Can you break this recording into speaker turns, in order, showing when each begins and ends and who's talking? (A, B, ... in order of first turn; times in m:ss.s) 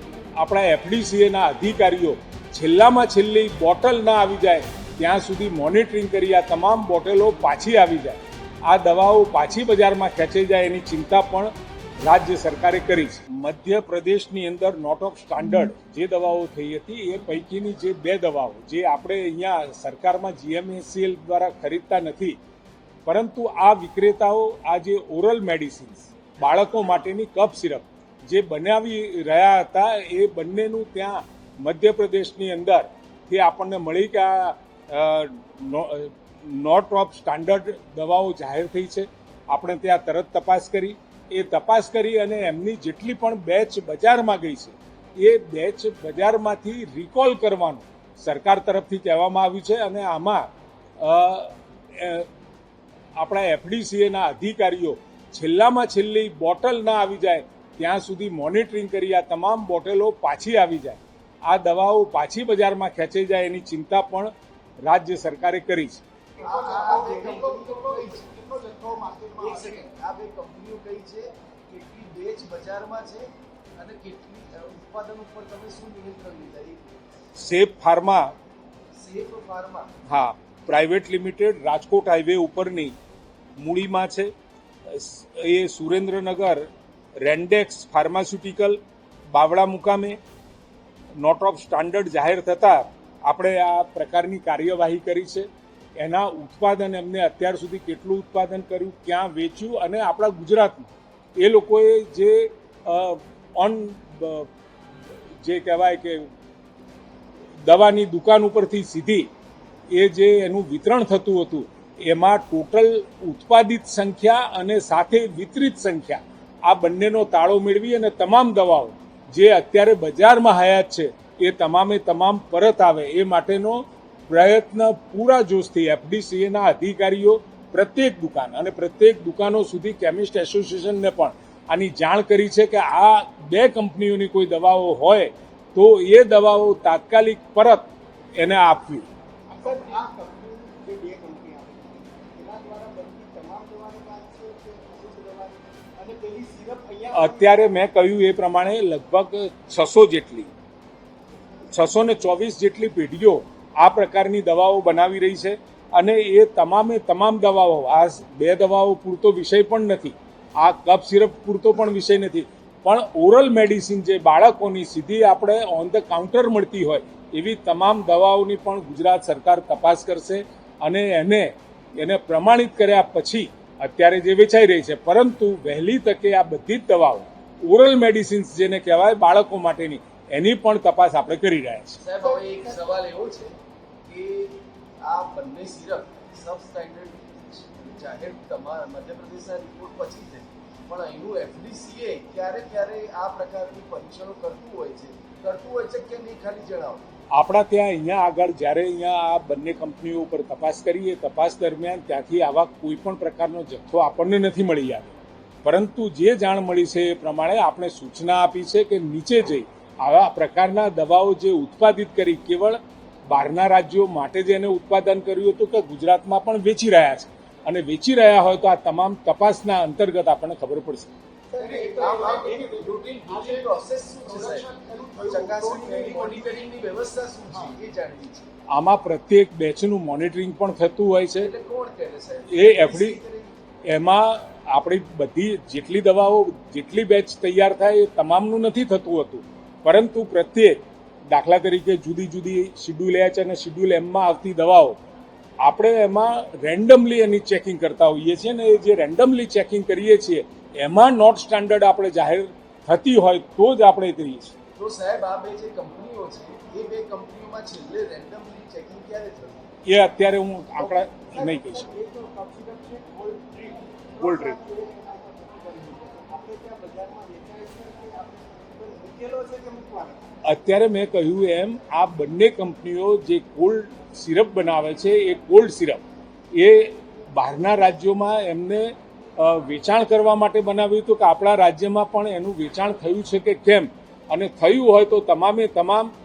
0:00.4-0:22.4 A
0:23.0-0:52.3 A
0:53.2-1:06.0 A
1:06.4-1:09.8 B
1:06.4-1:08.3 C
1:09.4-1:13.2 C
1:13.8-1:16.8 C
1:17.3-1:18.3 A
1:18.9-1:19.9 C
1:20.1-1:22.9 A
1:23.6-1:24.3 A
1:24.9-1:28.8 A
1:29.3-1:30.2 A
1:31.2-1:44.5 A
1:45.3-1:46.3 A
1:47.6-1:49.3 A
1:49.9-2:19.1 A
2:19.5-2:27.7 B
2:27.1-2:30.5 A
2:31.7-3:02.0 A
3:02.0-3:03.5 C
3:04.1-3:17.0 C
3:17.3-3:25.1 A
3:25.6-3:41.1 A
3:41.5-3:43.7 B
3:41.6-3:44.7 C
3:44.2-3:46.7 B
3:45.2-3:48.5 C
3:48.7-3:51.5 A
3:51.4-3:53.5 C
3:52.5-3:53.2 A
3:53.9-4:05.0 A
4:05.6-4:14.5 A
4:14.8-4:19.7 C
4:19.8-4:21.9 A
4:20.8-4:30.2 B
4:24.2-4:24.6 A
4:30.4-4:36.0 A
4:36.5-4:46.1 A